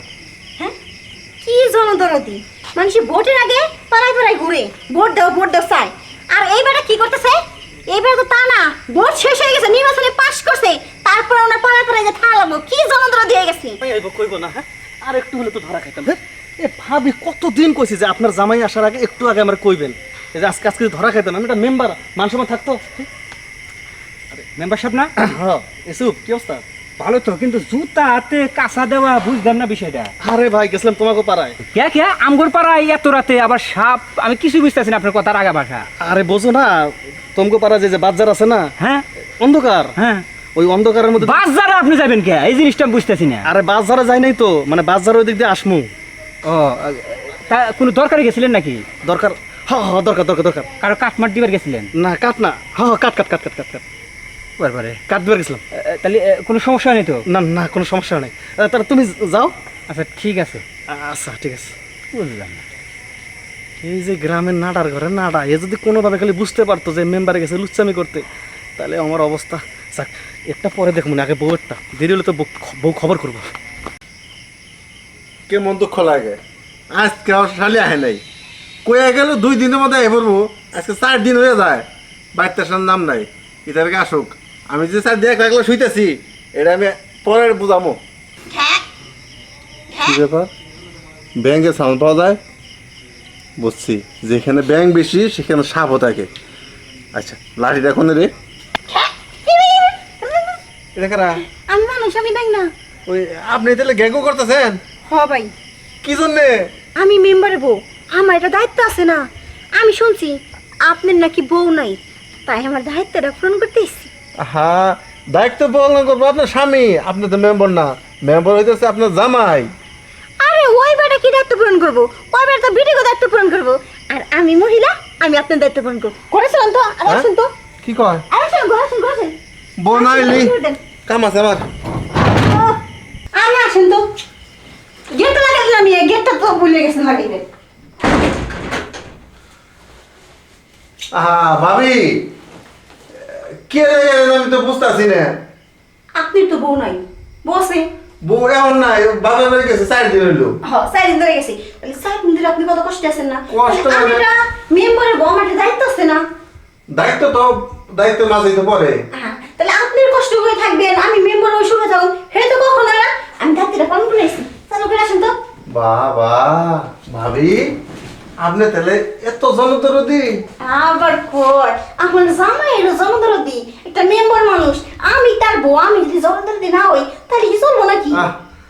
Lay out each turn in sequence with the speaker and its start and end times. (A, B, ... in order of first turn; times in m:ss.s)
0:01.4-0:13.8 A
0:13.8-0:23.1 B
0:24.3-0:25.1 C
0:25.2-0:26.6 B
0:27.0-0:30.1 C
0:30.2-0:31.6 B
0:31.7-0:35.9 C
0:36.0-0:38.7 B
0:38.8-0:39.0 C
0:39.4-0:40.0 B
0:40.0-0:40.2 C
0:40.6-0:41.4 B
0:41.2-0:43.5 C
0:43.4-0:45.9 B
0:46.5-0:48.9 C
0:49.0-0:50.7 B
0:50.8-0:51.9 C
0:52.0-0:53.8 B
0:54.6-0:55.0 C
0:55.1-0:55.6 B
0:55.7-0:57.2 C
0:57.3-0:59.6 B
0:59.9-1:00.6 C
1:00.9-1:01.7 B
1:02.1-1:02.6 C
1:03.8-1:08.2 B
1:08.8-1:13.5 B
1:15.5-1:16.4 D
1:16.9-1:18.2 D
1:18.8-1:28.0 D
1:28.5-1:28.8 A
1:29.9-1:30.2 A
1:30.0-1:30.5 D
1:31.4-1:32.4 D
1:33.6-1:36.3 D
1:37.1-1:38.3 D
1:38.9-1:40.6 A
1:41.0-1:41.4 D
1:41.5-1:42.7 A
1:43.1-1:44.8 D
1:45.1-1:45.5 A
1:46.0-1:46.7 D
1:47.0-1:54.1 A
1:54.4-1:59.7 D
2:00.4-2:07.5 A
2:07.8-2:08.3 D
2:08.3-2:09.4 A
2:09.8-2:10.6 D
2:09.9-2:10.8 A
2:11.1-2:11.6 D
2:12.3-2:12.8 A
2:13.3-2:14.1 A
2:15.1-2:17.4 A
2:21.1-2:22.3 D
2:23.2-2:25.4 D
2:26.2-2:27.9 A
2:28.2-2:30.6 D
2:30.6-2:36.2 A
2:33.5-2:34.3 D
2:36.9-2:39.0 D
2:39.1-2:45.3 A
2:45.7-2:47.8 D
2:48.4-2:50.4 D
2:50.6-2:58.2 A